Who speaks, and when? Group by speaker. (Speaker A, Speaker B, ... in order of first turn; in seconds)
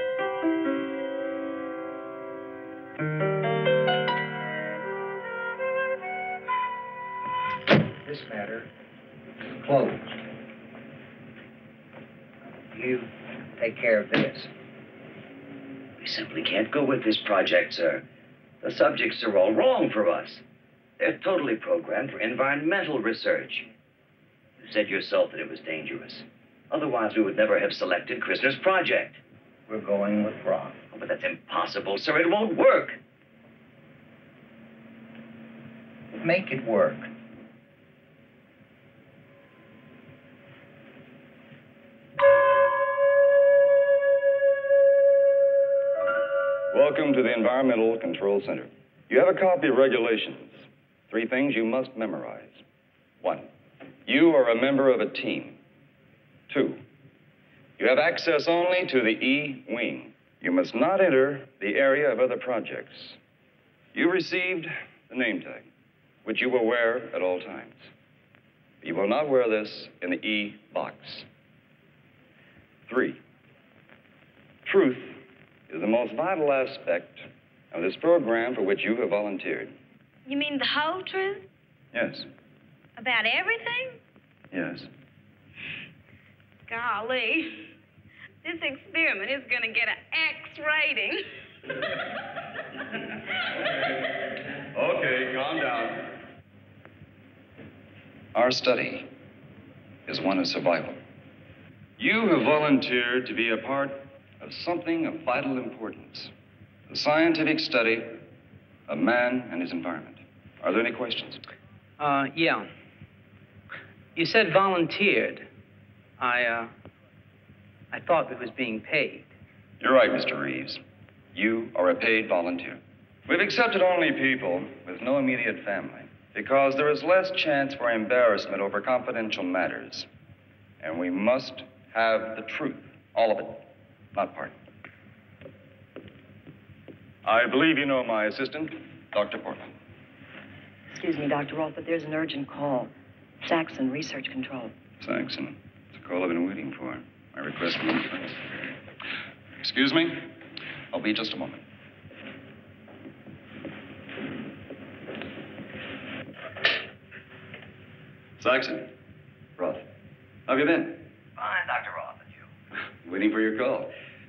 Speaker A: 8.0-8.7, 9.6-10.1, 12.7-14.5, 29.7-30.8, 36.1-37.1
Speaker B: 16.0-18.0, 18.6-20.4, 21.0-23.7, 24.6-29.2, 30.9-33.0, 161.4-162.5
Speaker C: 46.7-52.6, 53.2-53.5, 54.1-55.6, 56.5-56.8, 57.8-63.2, 63.9-65.7, 66.2-67.8, 68.8-71.3, 72.9-73.2, 74.7-75.2, 75.7-79.7, 81.9-82.3, 84.5-84.9, 94.7-96.1, 98.3-99.1, 100.1-101.0, 102.0-106.3, 106.9-108.2, 108.9-111.4, 119.8-120.8, 121.3-130.1, 130.8-134.5, 137.2-139.7, 145.0-148.4, 149.6-150.3, 150.9-151.6, 158.4-158.9, 159.6-159.8, 160.5-161.0, 163.0-163.9
Speaker D: 80.3-81.5, 83.0-84.0, 86.7-87.7, 88.4-91.2
Speaker E: 112.0-112.7, 114.2-115.5, 116.2-116.7, 117.9-119.3
Speaker F: 140.9-142.9, 143.4-144.7